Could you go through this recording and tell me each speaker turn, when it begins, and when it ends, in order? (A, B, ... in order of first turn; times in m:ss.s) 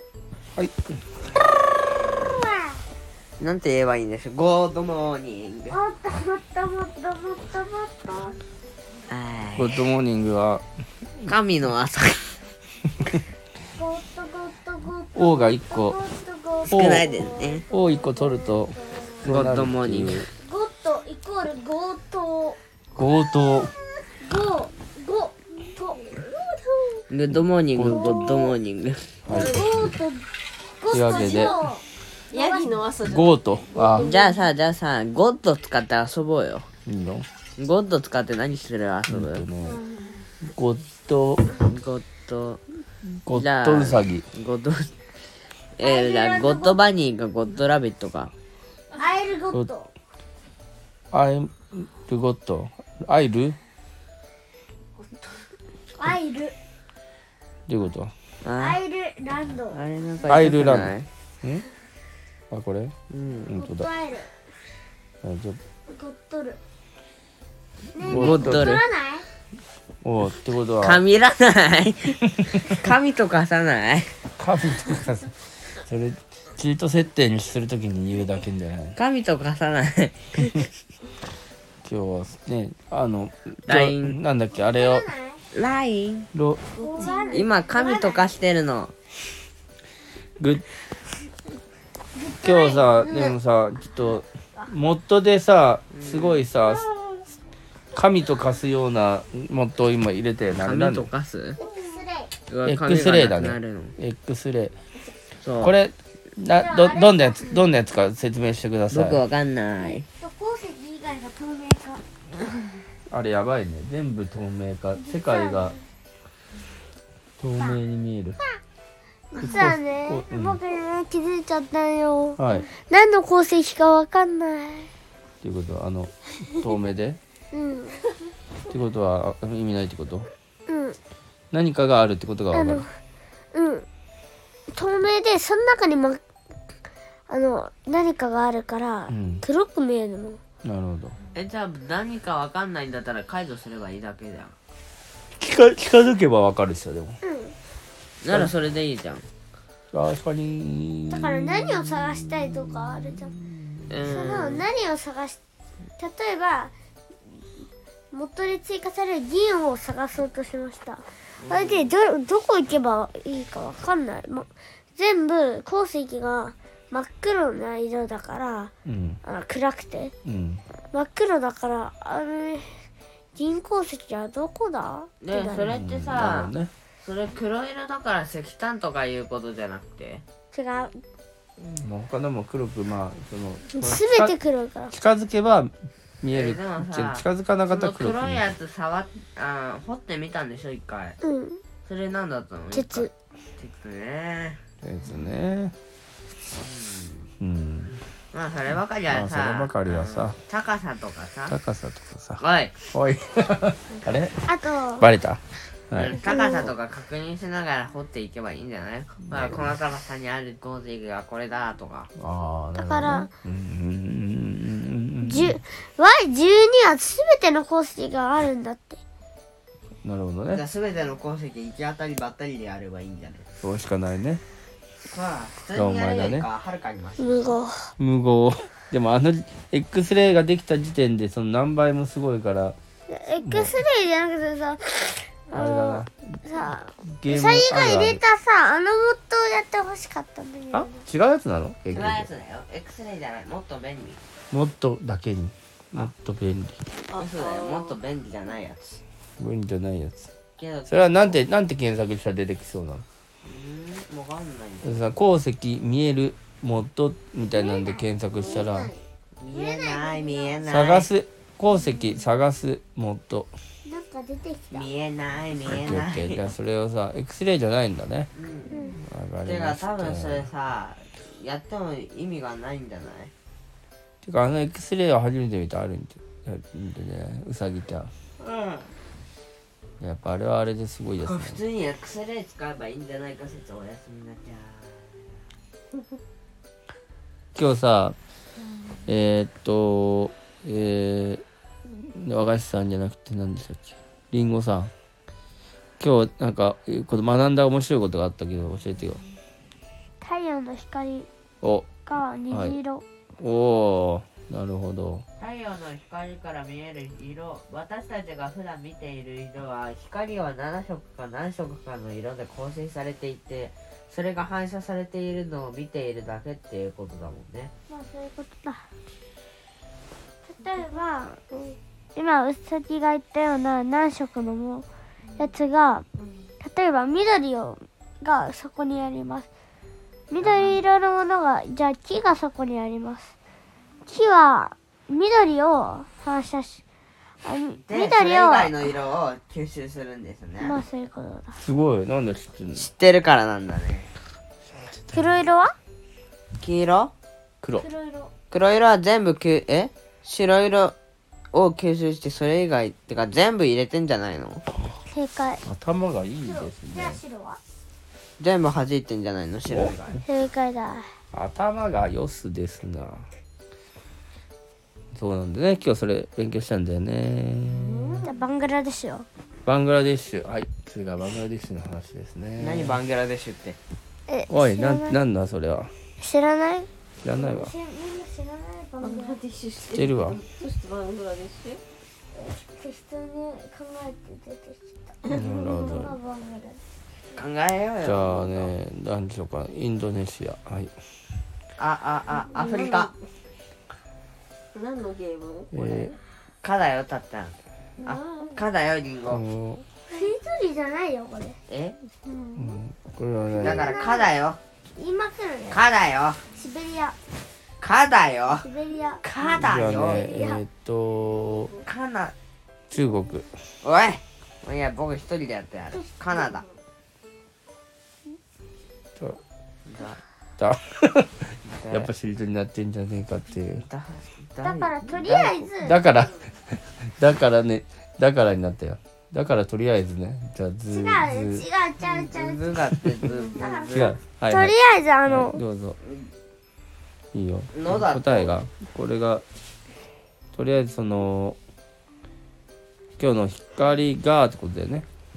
0:02.2-0:02.8 A
0:03.4-0:05.8 B
0:05.7-0:08.4 A
0:09.1-0:09.9 B
0:09.6-0:10.6 C
0:11.3-0:12.4 B
0:13.7-0:19.3 A
0:15.2-0:16.0 C
0:16.6-0:17.7 B
0:16.7-0:17.1 C
0:17.7-0:20.3 C
0:19.2-0:20.3 B
0:20.4-0:22.6 A
0:23.0-0:23.7 C
0:24.2-0:26.2 A
0:26.3-0:27.0 D
0:27.1-0:29.4 B
0:27.3-0:28.3 C
0:27.8-0:28.6 A
0:29.3-0:29.9 C
0:29.3-0:30.3 A
0:30.8-0:32.8 A
0:30.9-0:31.6 C
0:31.2-0:31.6 D
0:32.3-0:34.4 D
0:33.0-0:34.1 C
0:34.0-0:36.7 B
0:36.9-0:37.3 C
0:37.6-0:39.5 B
0:39.1-0:39.8 C
0:39.7-0:40.0 D
0:40.4-0:41.5 C
0:41.6-0:42.6 B
0:43.2-0:44.2 C
0:43.3-0:44.9 B
0:45.8-0:48.3 B
0:45.8-0:46.8 A
0:49.0-0:49.9 A
0:51.1-0:53.6 C
0:56.0-0:56.6 A
0:57.7-0:58.1 C
0:58.4-0:58.8 B
0:58.6-0:59.8 A
0:59.7-1:01.1 B
1:00.2-1:01.7 C
1:02.5-1:02.9 C
1:03.1-1:03.5 B
1:03.5-1:03.9 C
1:03.5-1:04.3 A
1:05.2-1:05.6 C
1:05.9-1:06.6 A
1:07.9-1:09.3 A
1:08.0-1:08.8 C
1:08.0-1:08.8 B
1:10.0-1:11.0 C
1:10.8-1:14.2 B
1:14.4-1:15.4 C
1:15.9-1:19.0 C
1:19.0-1:20.7 B
1:21.8-1:25.1 C
1:23.7-1:24.2 B
1:24.6-1:25.4 A
1:25.5-1:26.3 B
1:26.3-1:26.6 C
1:26.8-1:27.4 D
1:26.8-1:28.2 A
1:27.3-1:28.9 B
1:30.4-1:30.6 C
1:32.1-1:33.4 A
1:32.4-1:37.3 C
1:35.9-1:36.5 B
1:37.9-1:41.1 C
1:40.6-1:41.6 B
1:41.6-1:42.3 A
1:42.5-1:44.0 B
1:42.6-1:44.7 C
1:45.4-1:45.7 B
1:45.6-1:49.2 C
1:46.6-1:47.6 A
1:48.9-1:50.1 B
1:49.8-1:52.0 A
1:53.1-1:55.8 C
1:55.0-1:55.8 A
1:57.4-1:58.4 C
1:59.3-2:04.9 A
1:59.4-2:00.6 C
2:02.4-2:02.7 C
2:05.4-2:07.2 C
2:07.5-2:08.1 A
2:08.7-2:10.3 C
2:10.7-2:11.0 A
2:11.5-2:12.9 C
2:12.5-2:13.0 A
2:13.5-2:13.9 A
2:14.7-2:16.2 A
2:17.3-2:20.4 A
2:19.1-2:19.4 C
2:20.6-2:21.2 C
2:21.4-2:24.5 B
2:25.4-2:27.2 C
2:27.2-2:27.6 A
2:28.2-2:29.2 B
2:29.9-2:34.0 C
2:31.1-2:33.3 A
2:33.9-2:34.7 B
2:34.0-2:35.4 A
2:36.0-2:36.7 A
2:38.1-2:48.7 A
2:41.4-2:41.9 B
2:48.9-2:49.2 C
2:49.2-2:50.1 A
2:50.2-2:50.6 C
2:50.9-2:55.7 A
2:55.2-3:00.2 B
2:55.6-2:56.7 C
3:00.5-3:01.0 A
3:01.7-3:04.4 C
3:03.7-3:04.9 A
3:04.9-3:08.5 C
3:06.3-3:11.2 B
3:11.2-3:11.6 A
3:11.8-3:14.6 B
3:12.7-3:13.1 A
3:14.8-3:15.7 C
3:16.6-3:17.3 B
3:17.4-3:18.0 C
3:18.3-3:21.6 B
3:19.1-3:20.4 C
3:21.5-3:26.2 C
3:22.4-3:22.8 B
3:24.4-3:25.1 A
3:25.9-3:32.1 B
3:26.2-3:26.7 A
3:29.3-3:29.8 C
3:32.2-3:35.6 C
3:32.8-3:33.3 A
3:35.2-3:39.0 A
3:40.0-3:40.6 C
3:40.5-3:43.5 B
3:43.6-3:44.4 C
3:45.0-3:47.5 B
3:45.7-3:46.5 C
3:47.2-3:47.9 A
3:48.0-3:52.8 C
3:53.1-4:01.0 A
3:53.4-3:53.8 C
3:55.5-3:56.4 C
3:57.0-3:58.2 C
4:00.7-4:02.3 C
4:01.9-4:04.2 B
4:04.5-4:06.8 C
4:07.1-4:08.0 D
4:07.2-4:09.0 B
4:09.4-4:10.3 C
4:10.6-4:11.4 B
4:10.9-4:13.0 C
4:13.4-4:15.0 B
4:14.8-4:18.9 C
4:17.5-4:20.6 A
4:19.4-4:21.1 B
4:20.7-4:23.5 C
4:23.8-4:24.9 A
4:24.7-4:26.5 B
4:25.7-4:28.3 C
4:28.4-4:28.8 B
4:28.7-4:29.0 A
4:29.0-4:30.5 C
4:29.4-4:33.3 B
4:34.2-4:38.1 C
4:38.4-4:38.8 B
4:40.0-4:41.6 C
4:41.2-4:45.2 B
4:47.6-4:48.2 C
4:49.1-4:51.4 C
4:52.0-4:54.9 C
4:56.0-4:59.2 C
5:00.2-5:01.3 A
5:01.6-5:01.9 C
5:02.0-5:03.0 A
5:02.5-5:02.8 C
5:03.4-5:05.2 C
5:05.4-5:17.7 B
5:17.9-5:18.9 A
5:20.5-5:21.4 A
5:22.2-5:24.9 A
5:25.4-5:26.0 A
5:26.6-5:29.5 A
5:30.3-5:33.3 A
5:30.4-5:30.8 B
5:34.1-5:36.8 A
5:37.4-5:38.9 A
5:37.9-5:40.8 B
5:40.6-5:41.6 A
5:41.6-5:42.9 C
5:42.8-5:44.1 B
5:45.1-5:45.8 A
5:46.6-5:47.1 B
5:47.8-5:48.3 A
5:48.5-5:51.0 B
5:51.5-5:54.7 B
5:55.1-5:55.6 A
5:55.6-5:57.2 C
5:56.4-5:57.6 A
5:58.4-6:00.2 B
5:59.7-6:00.0 C
6:00.2-6:01.1 A
6:01.3-6:03.3 C
6:05.1-6:08.2 C
6:07.8-6:08.3 D
6:08.2-6:09.3 A
6:09.7-6:13.0 C
6:12.6-6:13.8 B
6:14.3-6:15.2 A
6:14.5-6:15.9 C
6:16.2-6:19.4 A
6:17.2-6:17.7 C
6:19.0-6:21.8 D
6:19.9-6:20.4 C
6:22.3-6:26.8 A
6:25.3-6:26.2 C
6:27.3-6:28.7 B
6:28.0-6:30.9 C
6:31.8-6:33.1 B
6:32.5-6:33.1 D
6:34.7-6:36.0 D
6:35.7-6:36.2 C
6:36.6-6:39.4 B
6:39.3-6:39.8 C
6:40.1-6:41.6 A
6:41.7-6:42.0 B
6:42.3-6:42.8 A
6:42.6-6:44.0 C
6:43.5-6:44.3 A
6:43.6-6:44.6 B
6:45.0-6:45.8 A
6:45.7-6:46.4 B
6:46.5-6:47.2 A
6:47.8-6:48.7 B
6:48.6-6:49.2 A
6:49.2-6:50.3 B
6:49.4-6:51.8 C
6:50.1-6:50.6 A
6:51.8-6:52.3 B
6:52.9-6:53.5 C
6:53.8-6:56.7 B
6:59.9-7:00.2 B
7:00.6-7:03.8 C
7:01.6-7:02.1 B
7:03.7-7:05.7 B
7:04.6-7:06.0 A
7:05.8-7:11.7 C
7:10.9-7:12.7 A
7:12.0-7:14.2 B
7:13.3-7:13.6 D
7:13.5-7:13.9 A
7:13.9-7:14.7 C
7:14.5-7:15.6 A
7:15.2-7:16.0 C
7:16.0-7:16.3 B
7:17.3-7:19.4 C
7:17.7-7:18.6 B
7:20.5-7:21.6 C
7:23.2-7:25.1 C